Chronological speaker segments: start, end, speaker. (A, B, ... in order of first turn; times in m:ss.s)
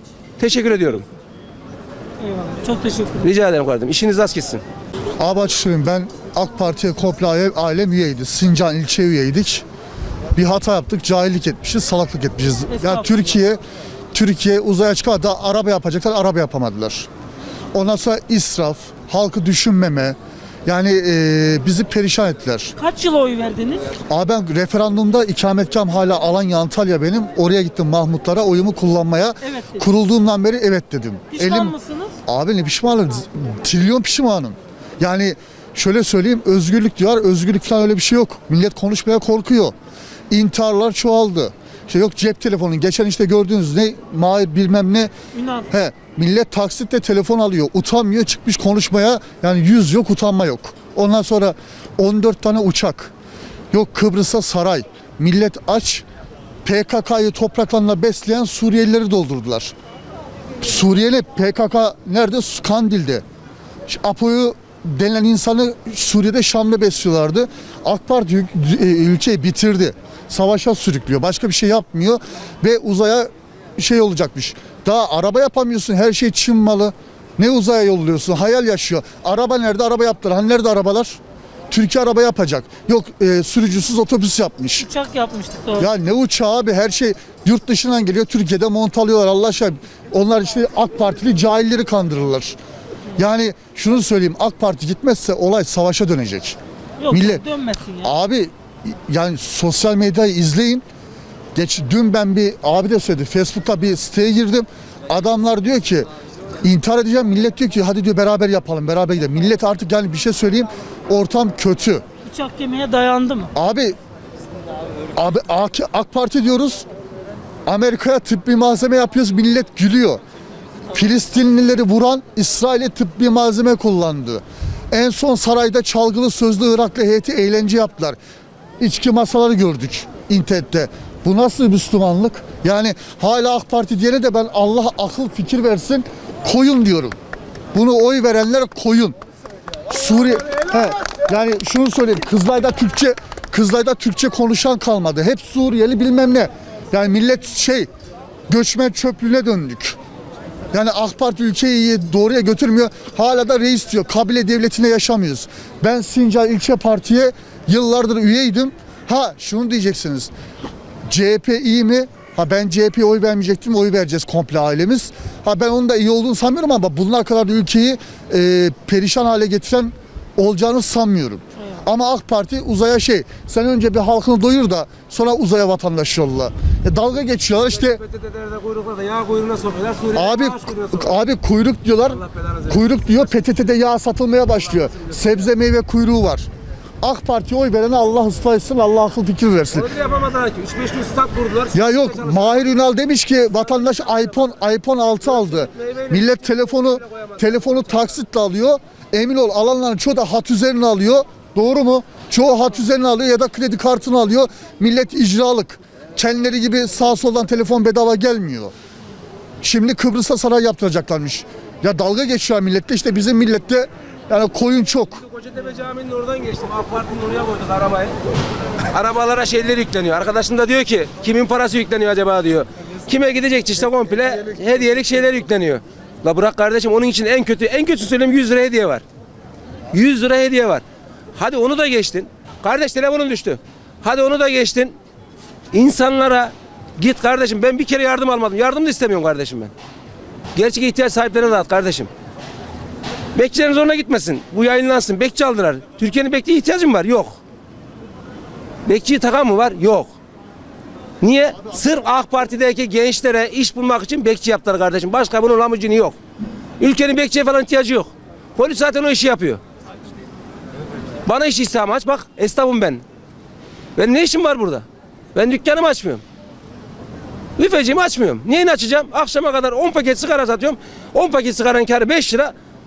0:00.4-0:01.0 A
0:02.2-0:03.2 B
0:03.2-0:04.6 A
0:05.2-0:09.6 C
0:10.3-0:13.6 C
0:12.7-0:13.2 B
0:14.1-0:17.1 C
0:17.7-0:22.7 C
0:22.7-0:24.0 B
0:24.1-0:31.7 C
0:29.4-0:29.8 B
0:31.3-0:32.2 B
0:32.2-0:39.7 C
0:40.3-0:45.1 C
0:45.3-0:45.7 B
0:45.7-0:53.1 C
0:53.7-0:56.0 C
0:56.6-0:59.7 C
1:00.6-1:03.2 C
1:03.9-1:21.2 C
1:21.7-1:24.9 C
1:24.8-1:25.9 B
1:25.8-1:32.6 C
1:33.2-1:36.6 C
1:37.0-1:38.1 B
1:37.1-1:37.4 C
1:38.0-1:40.8 C
1:41.5-1:46.1 C
1:46.6-1:52.0 C
1:52.2-1:53.5 B
1:53.5-1:54.0 C
1:55.1-1:56.9 C
1:57.6-2:00.2 C
2:00.9-2:08.2 C
2:08.8-2:17.2 C
2:17.7-2:19.2 C
2:19.9-2:27.9 C
2:28.5-2:30.0 C
2:30.7-2:40.3 C
2:41.1-2:58.0 C
2:57.6-3:01.1 A
3:00.1-3:06.5 C
3:02.1-3:03.2 A
3:04.7-3:05.3 A
3:07.0-3:09.9 C
3:09.7-3:12.7 A
3:11.7-3:28.7 C
3:15.2-3:17.7 A
3:29.6-3:35.2 C
3:35.2-3:38.2 A
3:38.9-3:49.0 A
3:49.9-3:50.8 A
3:51.3-3:55.0 A
3:55.7-3:59.7 A
4:00.5-4:02.1 A
4:03.3-4:07.4 A
4:08.8-4:10.1 A
4:11.2-4:16.2 A
4:16.8-4:19.6 A
4:21.2-4:23.0 A
4:24.0-4:26.2 A
4:27.6-4:32.5 A